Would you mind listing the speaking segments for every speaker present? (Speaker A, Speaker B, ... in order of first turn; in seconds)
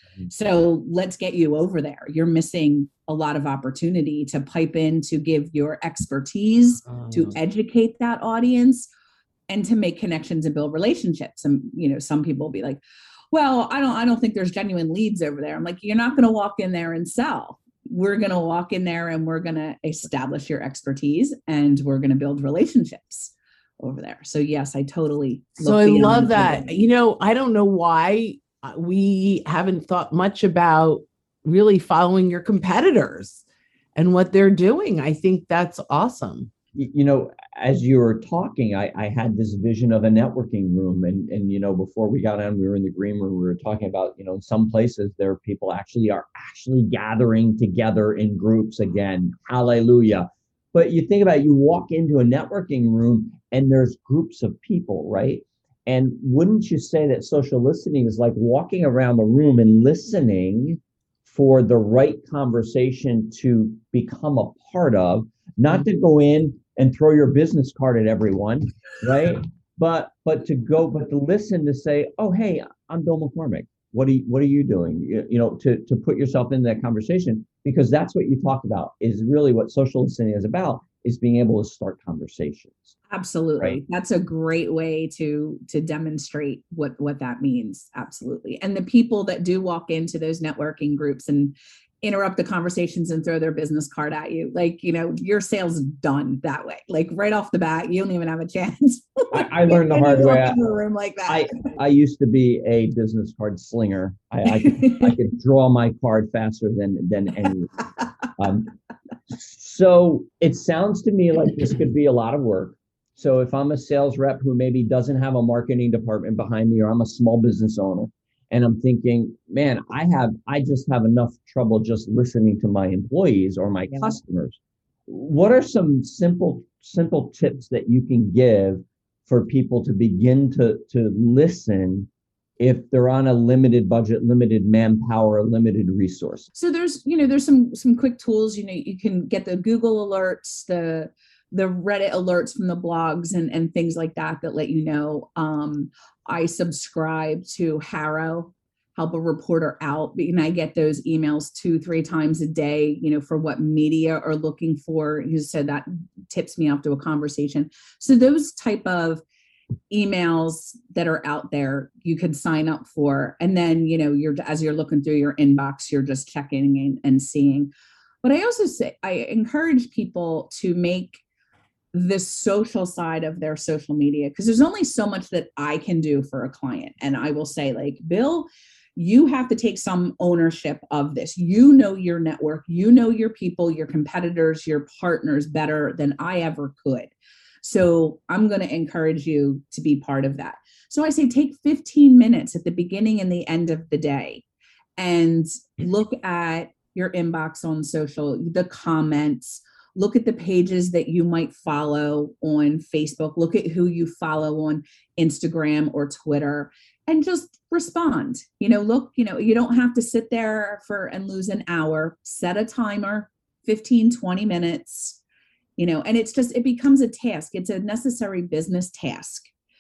Speaker A: 0.3-8.9, 9.5-26.7, 83.1-101.7, 104.7-105.1, 136.6-159.2, 159.9-167.7, 168.2-171.2, 171.9-187.1, 187.6-194.4, 195.0-215.2, 215.8-219.5
Speaker B: 6.9-7.3, 25.6-33.4, 34.0-36.5
Speaker C: 36.8-83.0, 99.3-100.6, 101.3-107.8, 108.4-108.7, 109.3-136.5